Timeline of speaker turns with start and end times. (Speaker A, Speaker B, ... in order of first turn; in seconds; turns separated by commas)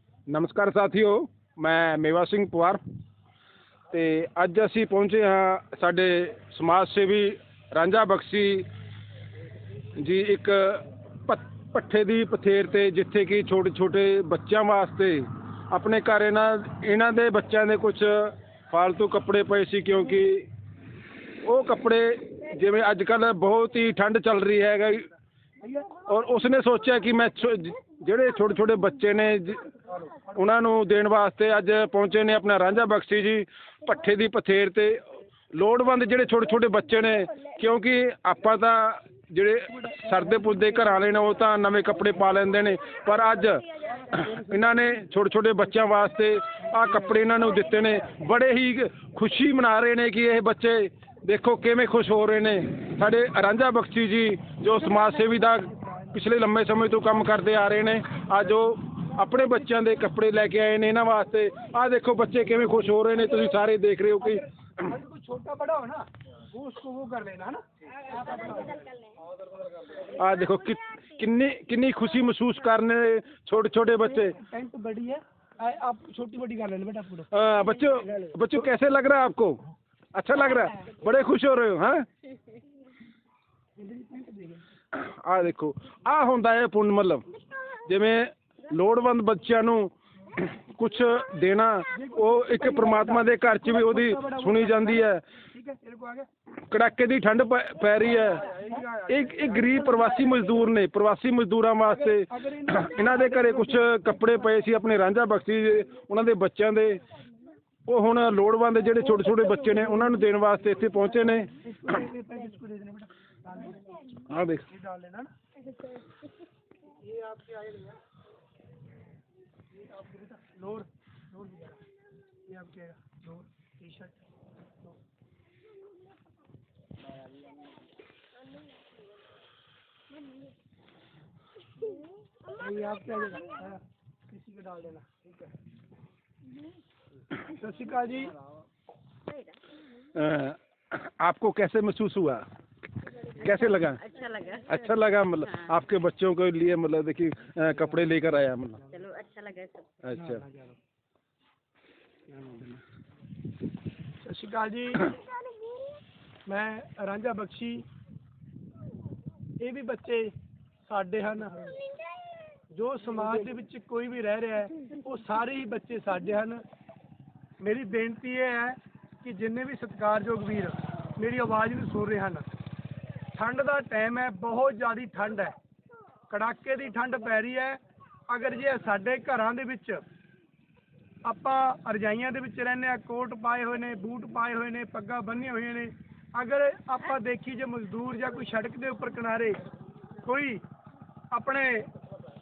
Speaker A: 0.3-2.8, Speaker A: 3.9-8.7, Speaker A: 10.0-20.5, Speaker A: 21.4-25.1, Speaker B: 25.6-26.0, Speaker A: 26.1-29.7, Speaker B: 30.0-30.4, Speaker A: 30.4-64.5, Speaker B: 39.8-40.1, Speaker B: 54.9-56.1, Speaker B: 64.2-68.8, Speaker A: 70.1-74.4, Speaker B: 74.0-77.3, Speaker A: 77.3-79.6, Speaker B: 78.0-78.4, Speaker A: 80.1-82.1, Speaker B: 83.8-84.6, Speaker A: 84.9-87.3, Speaker A: 87.8-95.2, Speaker B: 91.9-96.3, Speaker A: 96.6-98.5, Speaker B: 98.2-100.6, Speaker A: 99.1-107.0, Speaker B: 101.9-104.4, Speaker A: 107.9-112.0, Speaker B: 109.0-110.2, Speaker B: 111.1-114.1, Speaker A: 114.3-114.7, Speaker B: 114.7-115.3, Speaker B: 116.9-118.0, Speaker B: 119.8-121.8, Speaker B: 122.5-124.2, Speaker B: 132.5-135.5, Speaker B: 137.4-138.4, Speaker C: 139.3-139.6, Speaker A: 140.1-142.4, Speaker A: 143.1-144.0, Speaker C: 143.8-144.9, Speaker A: 144.7-148.9, Speaker C: 148.9-149.9, Speaker A: 150.0-150.4, Speaker B: 150.2-150.8, Speaker B: 152.3-152.8, Speaker B: 154.2-155.2, Speaker B: 156.5-157.8, Speaker B: 159.6-160.3, Speaker B: 160.8-161.8, Speaker B: 162.7-166.6, Speaker B: 167.6-172.5, Speaker B: 173.3-175.6, Speaker B: 176.3-180.0, Speaker B: 181.2-189.6, Speaker B: 190.2-190.6, Speaker B: 191.3-191.9